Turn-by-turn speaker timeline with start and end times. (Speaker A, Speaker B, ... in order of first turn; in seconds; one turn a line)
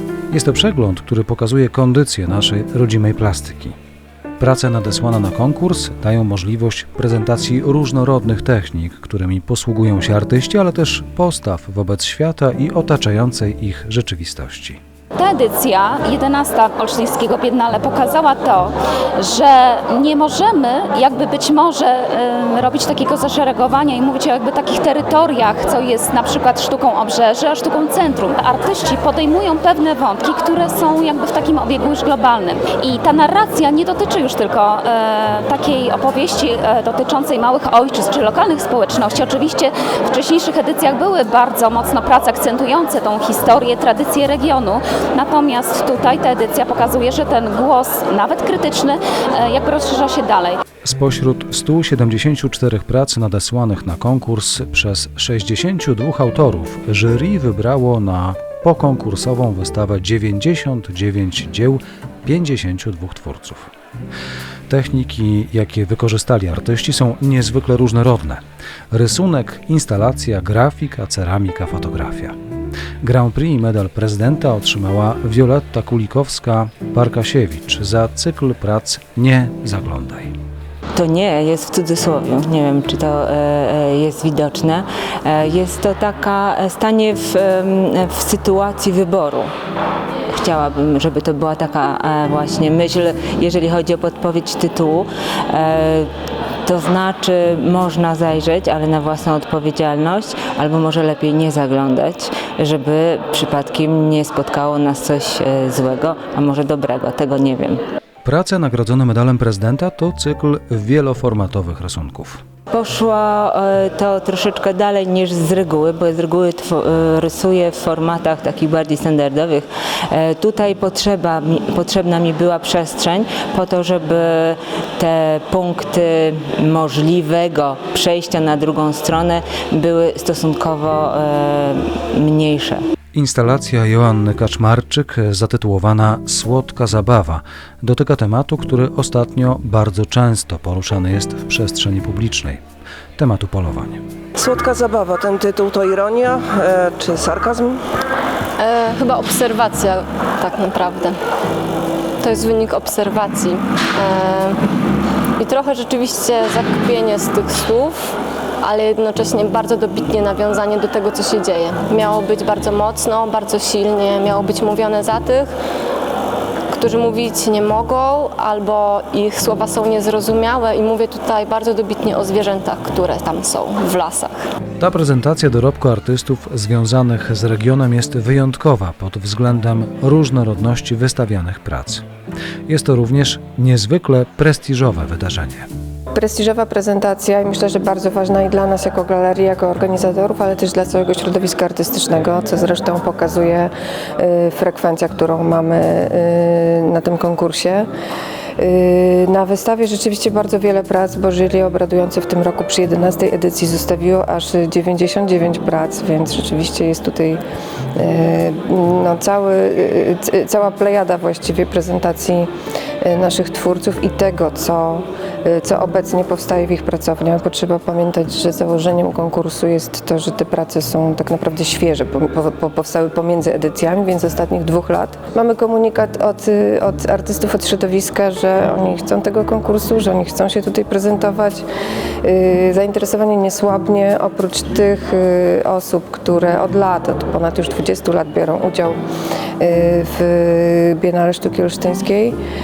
Speaker A: 0.3-3.8
Speaker A: 4.4-14.8
Speaker B: 15.2-50.6
Speaker A: 50.8-63.7
Speaker A: 64.7-72.3
Speaker A: 73.0-80.4
Speaker C: 80.9-89.5
Speaker C: 90.3-96.1
Speaker C: 96.6-107.8
Speaker A: 108.2-112.4
Speaker C: 112.7-132.8
Speaker A: 133.1-142.6
Speaker A: 143.2-144.0
Speaker D: 144.4-147.8
Speaker E: 148.6-151.2
Speaker E: 152.2-154.6
Speaker E: 155.4-165.5
Speaker E: 166.7-174.4
Speaker A: 174.8-182.0
Speaker A: 182.7-185.7
Speaker F: 186.1-197.9
Speaker F: 198.6-207.4
Speaker F: 207.9-212.5
Speaker F: 213.0-231.6
Speaker F: 232.2-239.0
Speaker F: 239.6-242.3